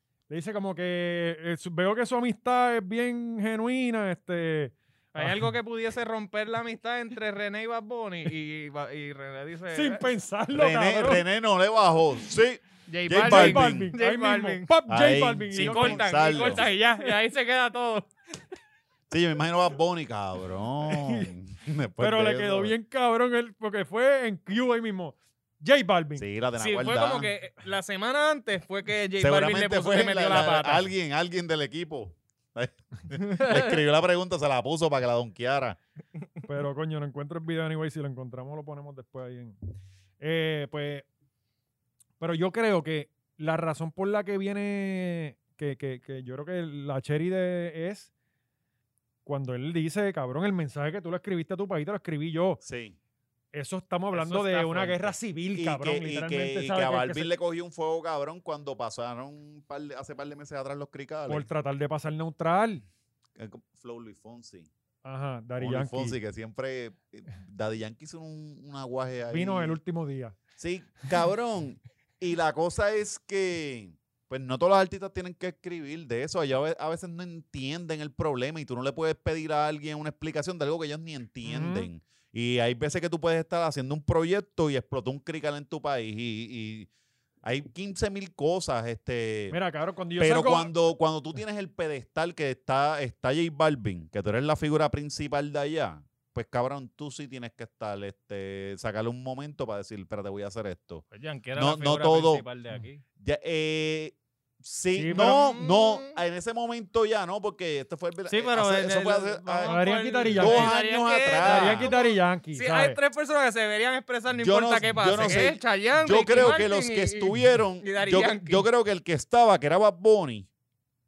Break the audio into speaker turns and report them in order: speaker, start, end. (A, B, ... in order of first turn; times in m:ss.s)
0:00.3-0:05.5 A
0:05.1-0:10.1 B
0:09.7-0:11.2 A
0:10.5-0:13.9 C
0:12.9-0:14.7 B
0:13.2-0:16.7 A
0:14.9-0:16.6 C
0:15.5-0:18.1 B
0:19.1-0:22.7 C
0:20.8-0:21.3 A
0:22.0-0:26.2 A
0:26.2-0:27.3 C
0:26.6-0:30.9 B
0:29.2-0:35.8 C
0:33.2-0:33.8 B
0:36.5-0:39.6 A
0:40.2-0:41.0 A
0:42.2-0:48.1 A
0:49.2-0:52.6 A
0:52.6-0:53.0 C
0:53.5-0:57.3 A
0:54.1-0:55.1 B
0:55.5-1:01.5 C
1:01.3-1:02.8 A
1:03.4-1:04.7 C
1:05.0-1:06.2 A
1:05.6-1:09.8 C
1:09.3-1:10.4 A
1:10.6-1:26.9 C
1:21.4-1:21.9 A
1:27.4-1:29.6 C
1:29.5-1:30.7 A
1:30.2-1:42.4 C
1:41.1-1:43.0 B
1:43.2-1:51.9 C
1:44.9-1:45.4 A
1:45.1-1:46.2 B
1:48.3-1:58.6 B
1:49.6-1:50.8 A
1:51.4-1:53.0 A
1:54.4-2:00.5 C